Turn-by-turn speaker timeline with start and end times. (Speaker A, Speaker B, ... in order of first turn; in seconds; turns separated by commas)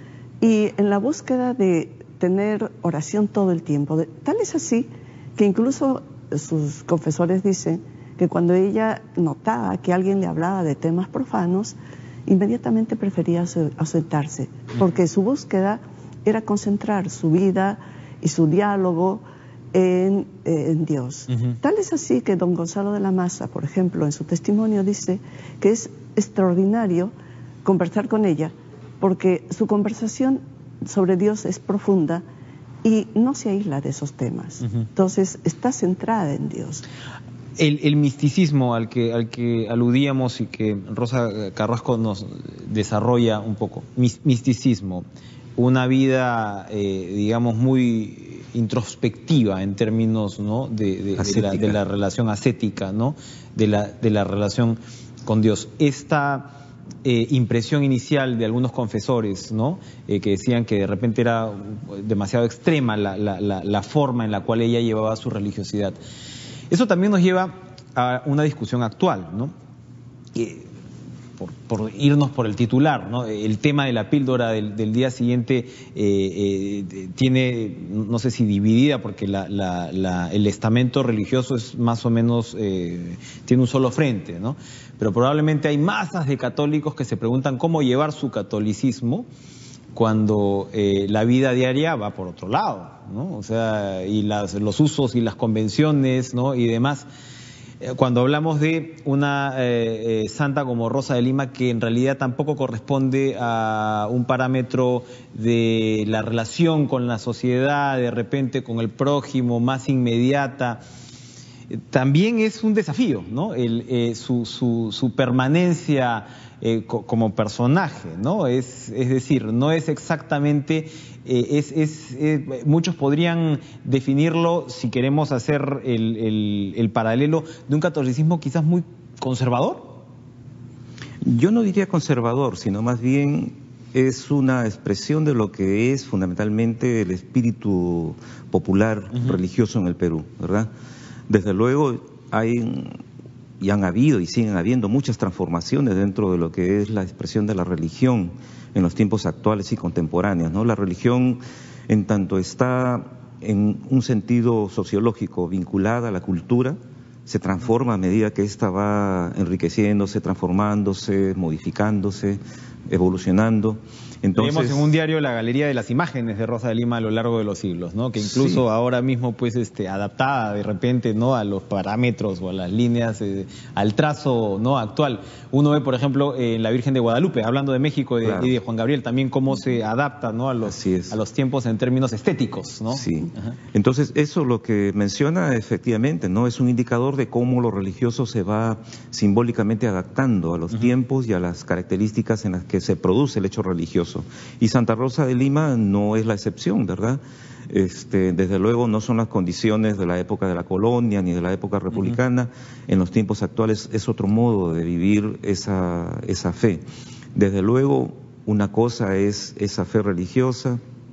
Speaker A: 0.4-19.2, Speaker A: 19.7-27.1, Speaker B: 21.3-21.6, Speaker A: 27.6-32.2, Speaker A: 32.8-36.9, Speaker B: 37.6-45.0, Speaker B: 45.6-56.5, Speaker C: 51.2-51.8, Speaker B: 57.0-66.0, Speaker B: 66.7-69.5, Speaker B: 70.3-70.7, Speaker B: 71.4-89.3, Speaker B: 90.0-97.1, Speaker B: 97.8-110.8, Speaker B: 111.7-129.9, Speaker C: 131.2-140.7, Speaker C: 141.3-143.0, Speaker C: 143.6-164.9, Speaker B: 164.4-183.5, Speaker C: 168.2-168.6, Speaker C: 178.2-178.5, Speaker C: 180.6-181.2, Speaker C: 182.9-206.8, Speaker C: 207.3-210.8